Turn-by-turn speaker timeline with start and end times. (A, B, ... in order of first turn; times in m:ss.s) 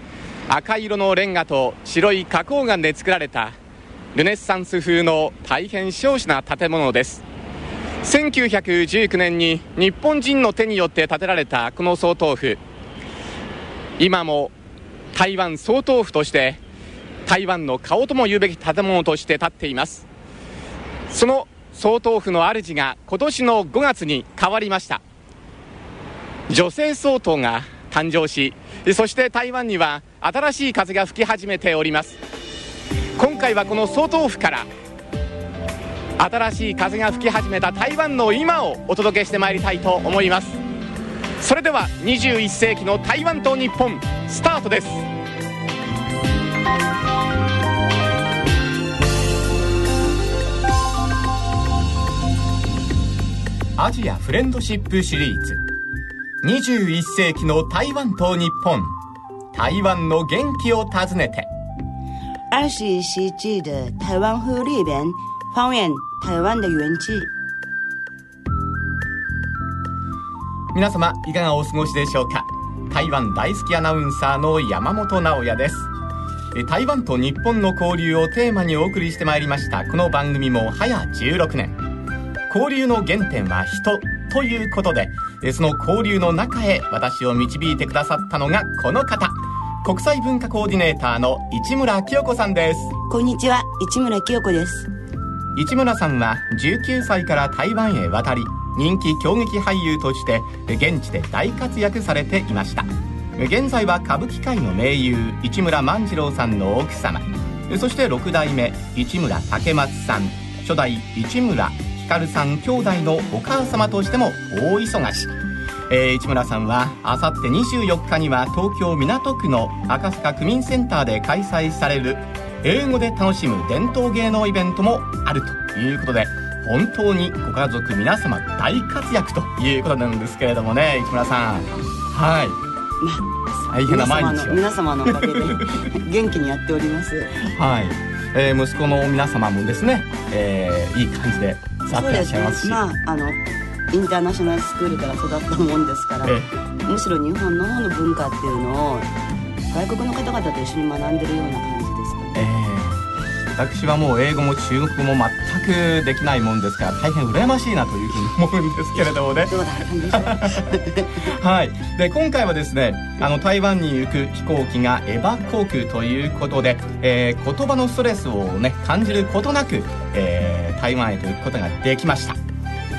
0:00.5-0:03.6 A
0:04.1-0:07.2 A
0:08.0-0:12.6 A
0:14.0-0:14.5 A
0:15.1-0:16.6 A
0:17.2-0:20.0 A
0:21.1-0:25.0 A
0:26.5-0:32.2 A
0:33.2-0:34.7 A
0:36.2-0:40.6 A
0:41.4-0:45.1 A
0:53.8-0:55.6 A
0:56.4-0:59.0 A
0:59.5-1:01.5 A
1:02.5-1:07.3 B
1:10.7-1:15.9 A
1:16.5-1:21.8 A
1:22.5-1:32.9 A
1:33.1-1:34.9 B
1:35.5-1:55.3 A
1:55.9-2:12.6 A
2:13.0-2:13.3 B
2:13.7-2:15.6 A
2:13.8-2:17.4 B
2:17.4-2:22.8 A
2:21.9-2:23.4 B
2:23.9-2:26.3 B
2:26.2-2:26.5 A
2:26.8-2:29.1 B
2:29.7-2:32.4 B
2:32.3-2:33.0 A
2:33.6-2:39.6 A
2:39.0-2:41.2 B
2:40.1-2:52.4 A